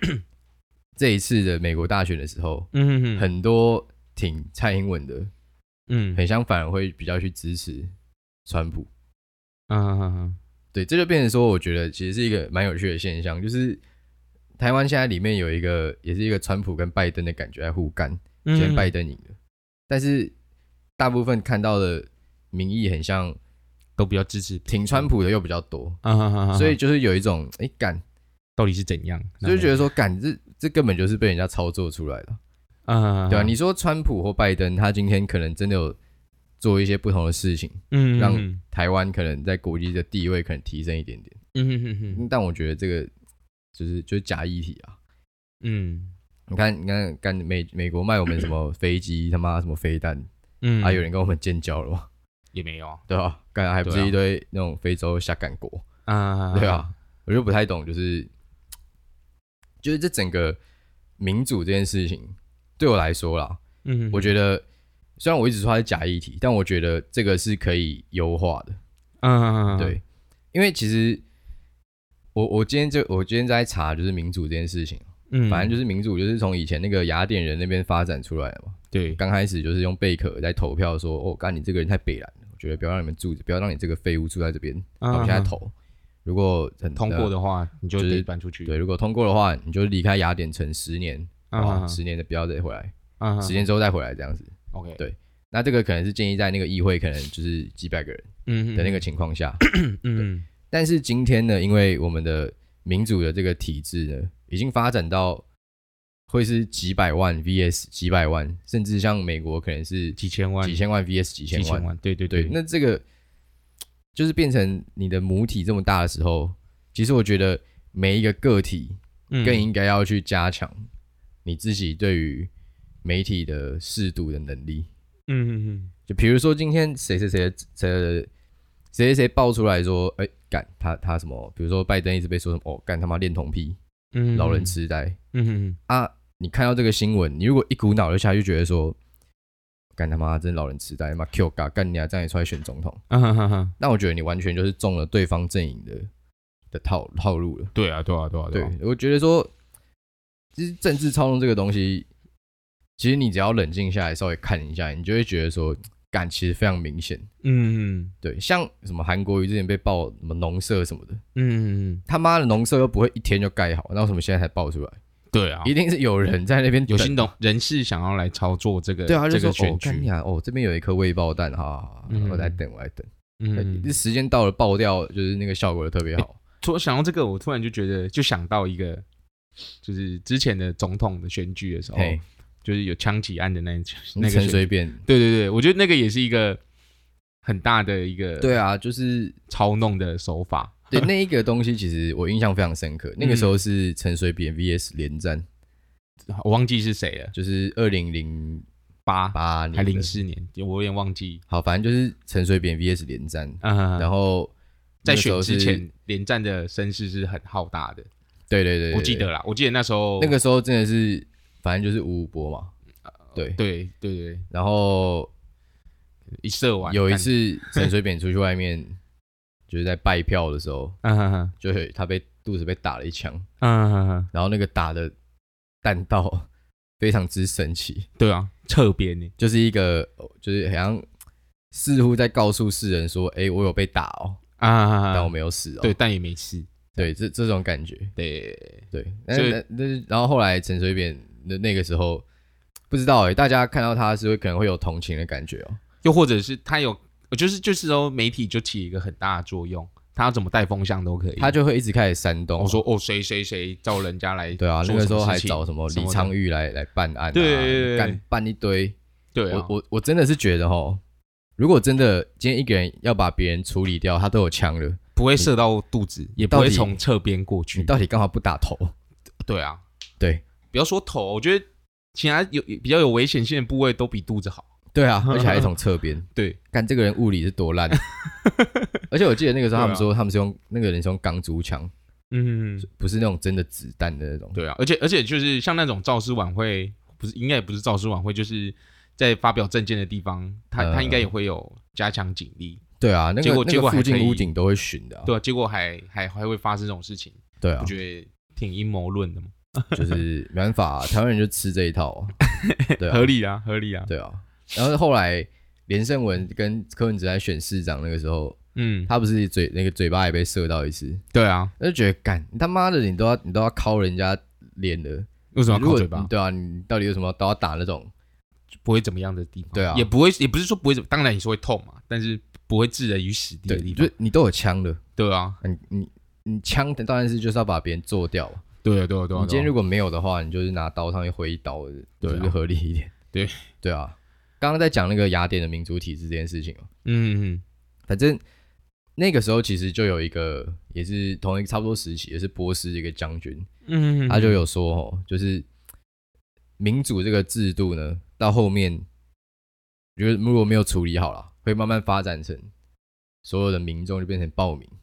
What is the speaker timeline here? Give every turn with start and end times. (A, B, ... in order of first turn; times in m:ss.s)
0:01.0-0:05.3 A
0:02.7-0:03.3 B
0:05.9-0:06.2 B
0:06.1-0:07.9 A
0:08.5-0:08.9 A
0:09.7-0:10.4 B
0:10.7-0:13.8 A
0:14.6-0:19.3 A
0:18.4-0:18.9 B
0:19.9-0:20.3 A
0:21.0-0:23.4 A
0:24.0-0:25.1 B
0:24.7-0:26.0 A
0:26.0-0:26.8 B
0:26.5-0:28.0 A
0:28.6-0:29.8 B
0:29.4-0:32.4 A
0:32.9-0:33.6 B
0:33.3-0:36.0 A
0:36.6-0:41.4 A
0:37.9-0:38.6 B
0:41.5-0:42.2 B
0:42.1-0:43.1 A
0:43.7-0:45.0 A
0:45.6-0:46.1 B
0:46.5-0:50.3 A
0:50.6-0:51.0 B
0:50.8-0:52.1 A
0:52.5-0:53.0 B
0:53.1-0:55.8 A
0:53.8-0:54.2 B
0:56.0-0:56.9 B
0:56.5-0:58.3 A
0:59.8-1:00.6 A
1:01.2-1:03.6 A
1:03.8-1:04.3 B
1:04.1-1:04.6 A
1:05.2-1:08.8 A
1:09.2-1:10.0 B
1:09.7-1:10.0 A
1:10.5-1:11.2 A
1:12.3-1:25.7 A
1:15.3-1:15.8 B
1:18.9-1:19.2 B
1:25.0-1:25.5 B
1:26.2-1:27.3 A
1:27.0-1:28.7 B
1:28.0-1:39.6 A
1:31.5-1:32.0 B
1:33.2-1:33.7 B
1:34.7-1:35.0 B
1:38.4-1:39.0 B
1:39.6-1:40.4 B
1:40.2-1:45.4 A
1:46.3-1:53.0 A
1:50.1-1:50.8 B
1:51.5-1:52.6 B
1:54.1-2:00.8 A
1:59.3-1:59.7 B
2:01.4-2:02.5 A
2:03.0-2:04.9 A
2:05.3-2:05.9 B
2:06.1-2:08.3 A
2:08.9-2:13.8 A
2:14.1-2:14.8 B
2:14.3-2:15.2 A
2:15.3-2:15.8 B
2:15.9-2:19.0 A
2:20.0-2:23.0 A
2:23.1-2:23.7 B
2:23.8-2:26.1 A
2:26.7-2:27.7 A
2:27.7-2:28.7 B
2:28.5-2:29.5 A
2:30.6-2:32.1 A
2:33.0-2:37.3 A
2:37.4-2:38.1 B
2:38.2-2:41.2 A
2:41.3-2:42.0 B
2:42.1-2:45.0 A
2:45.3-2:45.7 B
2:45.6-2:47.3 A
2:46.9-2:50.1 B
2:49.1-2:56.4 A
2:52.1-2:52.6 B
2:53.4-2:53.9 B
2:56.6-2:59.0 B
2:59.8-3:06.6 B
3:01.9-3:02.2 A
3:04.2-3:05.0 A
3:07.4-3:08.5 B
3:08.4-3:09.4 A
3:09.5-3:11.1 B
3:10.9-3:15.4 A
3:13.2-3:13.6 B
3:16.3-3:17.3 B
3:17.3-3:18.6 A
3:19.0-3:21.4 B
3:19.3-3:20.1 A
3:21.5-3:24.5 A
3:23.6-3:24.1 B
3:25.0-3:28.1 B
3:25.0-3:25.8 A
3:28.5-3:29.3 A
3:28.9-3:30.4 B
3:30.2-3:32.7 A
3:33.3-3:34.4 B
3:34.5-3:35.3 A
3:36.4-3:37.9 B
3:36.8-3:39.0 A
3:39.7-3:41.0 A
3:41.0-3:41.5 B
3:41.6-3:43.4 A
3:43.6-3:44.3 B
3:44.3-3:45.1 A
3:45.8-3:46.5 A
3:47.0-3:48.1 A
3:48.2-3:49.3 B
3:49.4-3:51.0 A
3:51.7-3:54.4 A
3:54.6-3:57.1 B
3:55.1-3:55.9 A
3:57.0-3:58.1 A
3:58.2-3:59.6 B
3:58.9-4:02.2 A
4:02.9-4:05.8 A
4:06.0-4:11.6 B
4:11.4-4:12.8 A
4:12.6-4:16.3 B
4:14.6-4:19.0 A
4:17.3-4:18.2 B
4:19.3-4:19.7 B
4:19.5-4:21.0 A
4:21.6-4:25.5 A
4:25.2-4:27.9 B
4:26.4-4:27.0 A
4:27.7-4:28.9 A
4:29.4-4:29.8 B
4:30.7-4:34.7 B
4:34.9-4:38.0 A
4:35.2-4:35.7 B
4:37.9-4:38.9 B
4:39.1-4:41.9 A
4:39.7-4:40.1 B
4:42.3-4:42.9 B
4:42.8-4:44.6 A
4:44.5-4:52.8 B
4:50.8-4:51.3 A
4:53.0-4:55.3 A
4:53.4-4:54.5 B
4:55.2-5:00.2 B
4:57.6-4:57.9 A
4:59.9-5:02.4 A
5:02.4-5:04.1 B
5:03.0-5:03.3 A
5:04.1-5:08.6 A
5:08.8-5:09.1 B
5:09.1-5:11.2 A
5:11.3-5:11.7 B
5:11.8-5:18.1 A
5:15.5-5:16.3 B
5:18.8-5:24.1 B
5:19.7-5:20.1 A
5:23.7-5:25.0 A
5:25.2-5:25.6 B
5:25.6-5:28.6 A
5:28.8-5:29.7 B
5:29.3-5:33.1 A
5:32.2-5:32.6 B
5:33.3-5:33.7 B
5:33.8-5:36.9 A
5:37.0-5:37.6 B
5:38.1-5:38.4 A
5:39.2-5:43.7 A
5:43.8-5:44.6 B
5:44.3-5:45.6 A
5:46.8-5:49.0 A
5:50.2-5:52.7 A
5:53.4-5:54.9 A